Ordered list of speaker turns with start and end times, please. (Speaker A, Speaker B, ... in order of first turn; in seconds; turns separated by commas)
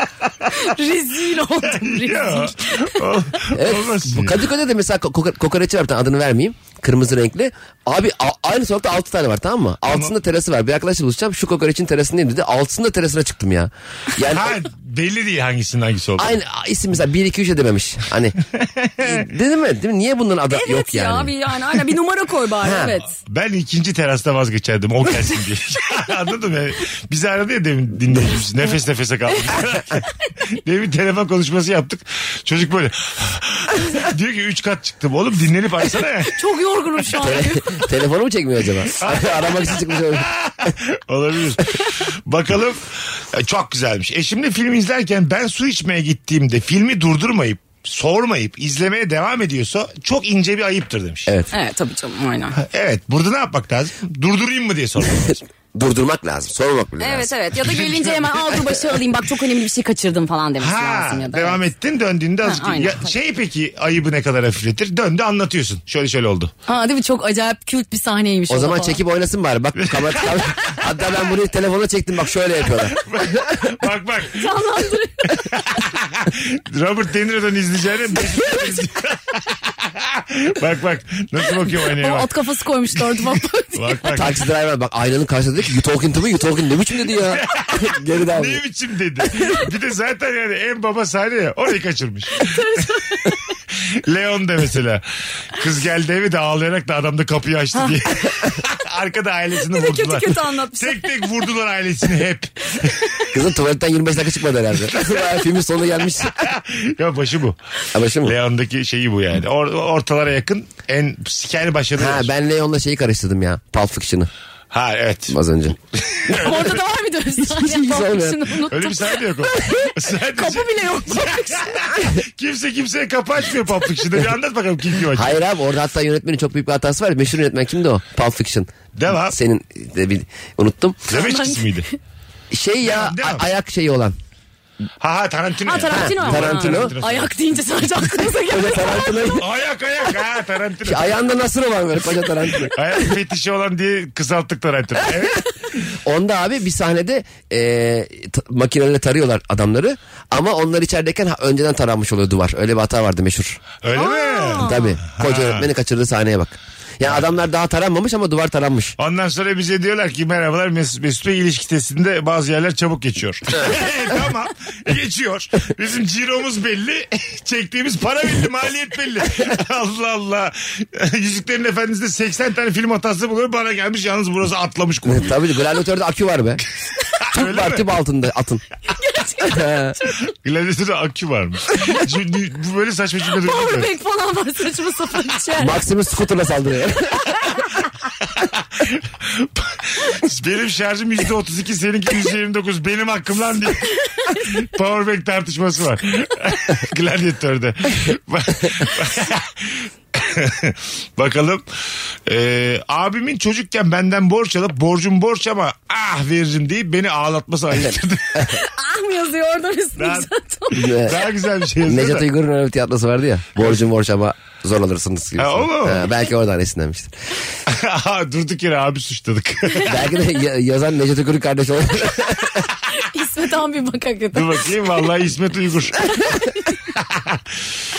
Speaker A: 0.5-3.0, Speaker B: 1.6-4.5, Speaker C: 3.5-14.6, Speaker B: 9.9-10.1, Speaker B: 14.3-16.4, Speaker C: 16.2-18.4, Speaker B: 18.6-19.2, Speaker C: 19.0-21.3, Speaker A: 20.5-23.1, Speaker C: 22.6-22.9, Speaker B: 23.2-36.3, Speaker A: 36.3-37.8, Speaker C: 37.2-40.3, Speaker B: 39.0-51.3, Speaker A: 51.5-52.6, Speaker B: 52.6-55.4, Speaker C: 55.3-57.3, Speaker A: 57.0-61.7, Speaker B: 57.6-58.6, Speaker B: 60.6-66.5, Speaker A: 62.4-63.1, Speaker A: 66.7-69.0, Speaker C: 68.5-73.0, Speaker B: 69.9-70.7, Speaker B: 73.0-74.6, Speaker A: 74.3-75.7, Speaker B: 75.4-82.3, Speaker A: 81.7-84.0, Speaker B: 82.9-84.4, Speaker C: 84.1-88.6, Speaker B: 87.2-92.8, Speaker A: 92.4-93.4, Speaker B: 93.8-103.2, Speaker A: 99.6-101.3, Speaker C: 103.3-106.5, Speaker B: 106.3-107.6, Speaker C: 107.9-108.3, Speaker B: 108.2-112.3, Speaker C: 112.0-114.3, Speaker B: 114.7-115.4, Speaker C: 115.3-116.6, Speaker B: 116.2-116.8, Speaker A: 116.3-121.8, Speaker C: 117.5-118.5, Speaker B: 118.6-125.4, Speaker C: 125.1-128.7, Speaker B: 128.9-129.4, Speaker C: 129.3-131.0, Speaker B: 131.1-131.9, Speaker A: 131.1-131.9, Speaker C: 132.5-134.2, Speaker B: 132.8-133.5, Speaker B: 135.0-137.3, Speaker A: 135.6-139.4, Speaker C: 135.9-136.9, Speaker C: 138.5-139.4, Speaker B: 139.3-141.3, Speaker C: 140.8-142.7, Speaker B: 142.6-145.4, Speaker C: 146.0-153.6, Speaker B: 153.8-155.7, Speaker A: 153.9-154.9, Speaker C: 154.6-158.9, Speaker B: 157.0-157.3, Speaker B: 159.0-175.4, Speaker C: 175.0-176.6, Speaker B: 177.3-177.9, Speaker C: 177.3-178.6, Speaker A: 178.9-180.2, Speaker C: 179.5-179.9, Speaker B: 180.3-183.9, Speaker A: 183.4-185.8, Speaker C: 185.6-187.2, Speaker B: 188.4-208.6, Speaker A: 194.2-194.4, Speaker A: 208.5-211.1, Speaker B: 210.0-210.3, Speaker C: 210.7-211.2, Speaker B: 210.8-212.2, Speaker C: 211.8-217.1, Speaker B: 213.6-213.8, Speaker B: 215.4-216.1, Speaker B: 217.7-220.1, Speaker C: 219.8-222.7, Speaker A: 222.9-224.9, Speaker B: 224.3-226.1, Speaker A: 226.0-226.8, Speaker B: 226.9-227.6